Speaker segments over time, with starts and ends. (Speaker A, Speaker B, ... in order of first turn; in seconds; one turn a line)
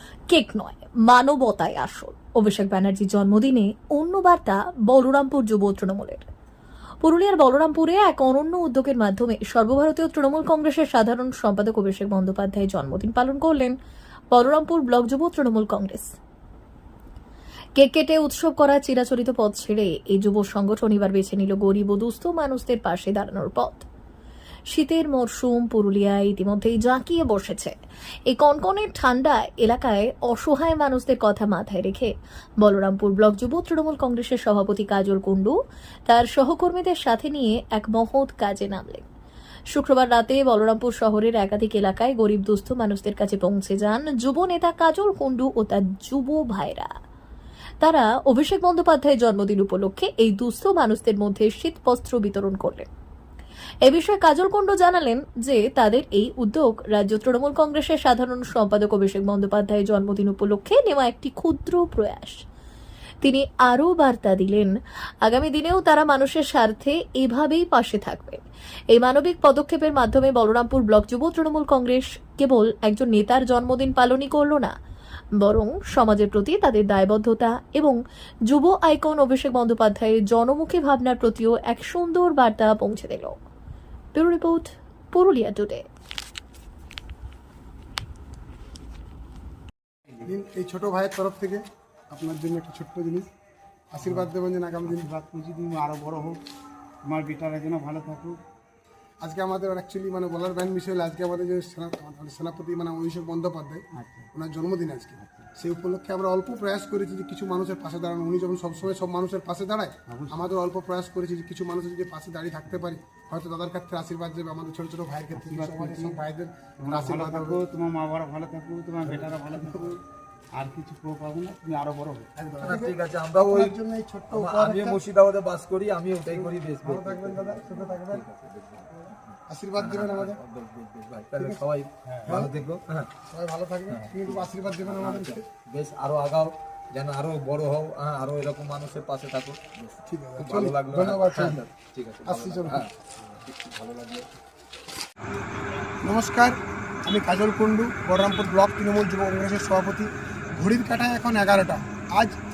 Speaker A: 0.3-6.3
Speaker A: 7.0-13.7
Speaker A: 14.3-16.1
Speaker A: 17.8-23.9
Speaker A: 24.7-27.7
Speaker A: 28.3-35.6
Speaker A: 36.1-39.0
Speaker A: 39.7-46.9
Speaker A: 47.8-52.9
Speaker A: 53.9-62.4
Speaker A: 63.2-64.7
Speaker A: 65.2-68.4
Speaker A: 68.9-74.7
Speaker A: 75.4-78.0
Speaker A: 78.5-83.3
Speaker A: 84.1-85.8
Speaker B: 90.2-93.3
Speaker B: 93.9-95.1
Speaker C: 94.0-94.3
Speaker C: 94.8-96.4
Speaker C: 97.0-98.4
Speaker B: 99.2-117.6
Speaker C: 103.9-104.3
Speaker C: 105.2-105.5
Speaker C: 110.1-110.5
Speaker C: 115.3-116.2
Speaker C: 116.8-120.0
Speaker B: 119.1-119.8
Speaker C: 120.6-122.3
Speaker B: 122.4-125.0
Speaker D: 122.6-123.7
Speaker D: 124.3-133.1
Speaker B: 126.3-128.2
Speaker B: 129.5-130.4
Speaker B: 131.4-131.6
Speaker C: 132.1-132.4
Speaker B: 132.2-132.5
Speaker B: 133.3-135.4
Speaker D: 133.9-144.3
Speaker B: 140.1-141.6
Speaker B: 142.2-142.9
Speaker B: 146.0-146.5
Speaker B: 147.1-152.3